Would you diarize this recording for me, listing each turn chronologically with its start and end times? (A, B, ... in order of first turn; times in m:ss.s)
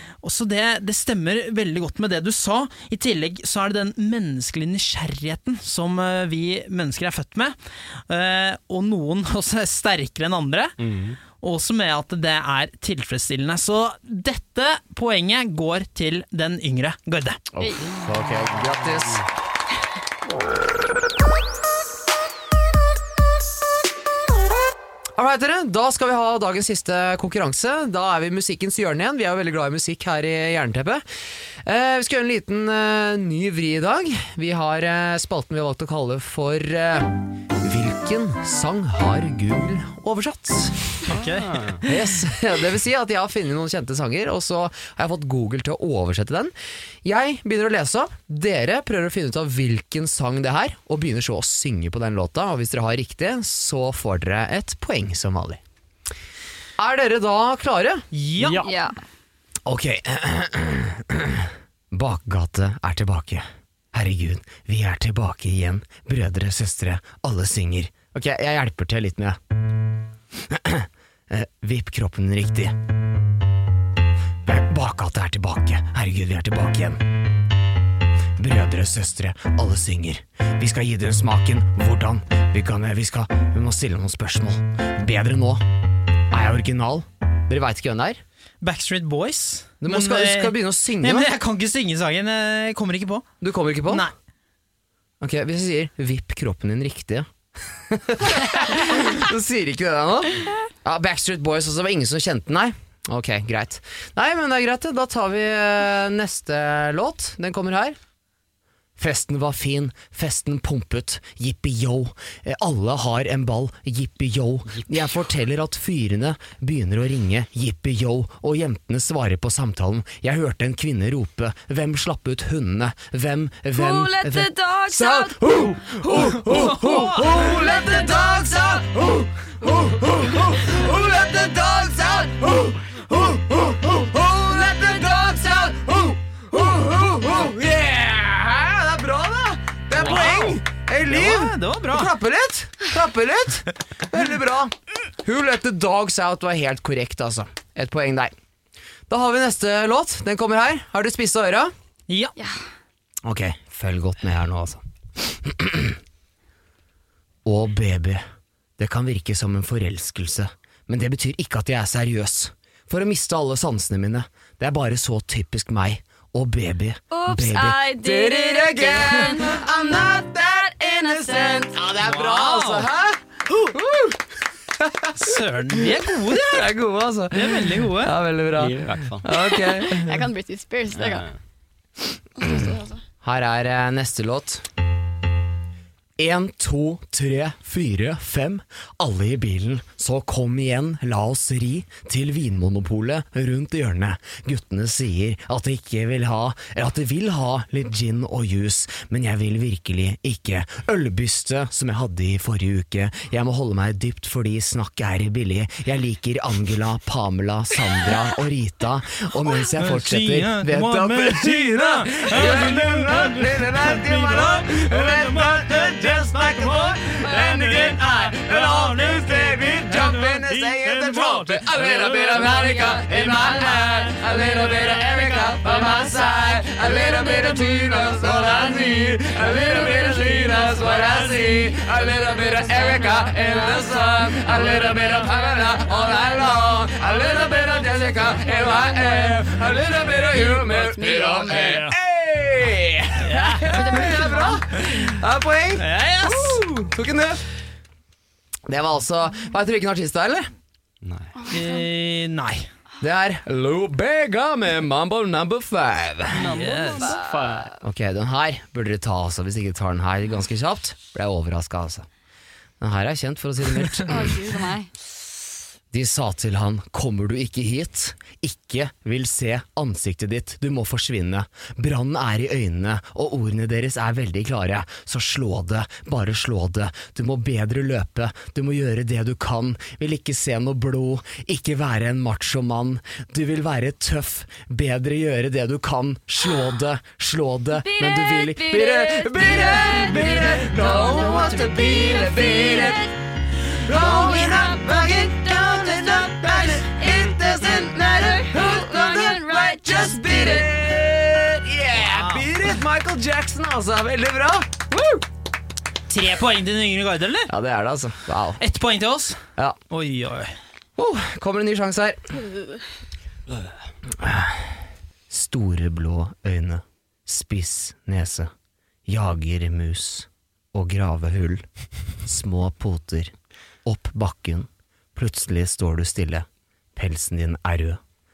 0:00.2-0:10.7 A
0:10.8-0:11.2 B
0:11.4-0:17.4 A
0:17.5-0:19.3 C
0:17.6-0:17.9 D
0:25.1-0:41.0 C
0:41.1-0:41.9 A
0:41.1-0:41.8 B
0:41.8-0:55.6 C
0:56.8-0:58.1 C
0:58.1-0:58.6 A
0:58.4-0:58.7 B
0:58.6-0:59.0 D
0:59.6-1:09.4 C
1:10.4-1:12.8 C
1:14.4-1:17.0 C
1:18.4-1:25.6 C
1:26.3-1:28.2 C
1:28.6-1:33.3 A
1:29.8-1:31.3 C
1:33.4-1:34.1 C
1:33.9-1:34.1 A
1:35.2-1:48.0 C
1:49.0-2:28.4 C
2:03.7-2:06.0 D
2:06.4-2:07.6 A
2:07.6-2:08.0 D
2:20.0-2:22.1 A
2:29.1-2:31.7 C
2:32.1-2:32.4 A
2:32.4-2:32.6 D
2:33.2-2:36.0 C
2:37.4-2:38.2 C
2:38.8-3:00.3 C
2:47.1-2:51.8 D
2:52.0-2:52.9 A
2:55.2-2:56.7 A
2:57.3-2:58.2 A
2:58.5-2:59.3 B
2:59.9-3:01.3 D
3:01.0-3:01.3 B
3:02.4-3:03.0 D
3:03.2-3:04.7 C
3:06.2-4:07.5 C
3:29.8-3:32.9 A
3:52.9-3:53.9 D
4:00.4-4:01.9 D
4:03.2-4:04.2 A
4:03.7-4:04.6 D
4:05.8-4:06.6 A
4:08.7-4:10.5 C
4:11.0-4:11.3 B
4:11.5-4:12.7 A
4:13.0-4:16.5 C
4:16.3-4:17.8 B
4:16.4-4:17.2 A
4:17.0-4:17.5 D
4:17.8-4:22.1 C
4:22.8-4:24.5 C
4:24.1-4:24.9 D
4:25.9-4:53.1 C
4:47.7-4:53.1 D
4:53.8-5:05.2 C
4:53.9-4:55.1 D
4:56.8-4:57.1 D
4:58.2-5:00.7 D
5:01.9-5:02.6 A
5:06.1-5:07.5 A
5:07.5-5:08.6 C
5:08.6-5:10.6 A
5:11.0-5:12.4 C
5:14.1-5:14.8 C
5:15.3-5:18.5 C
5:19.1-5:21.6 C
5:22.2-5:28.0 C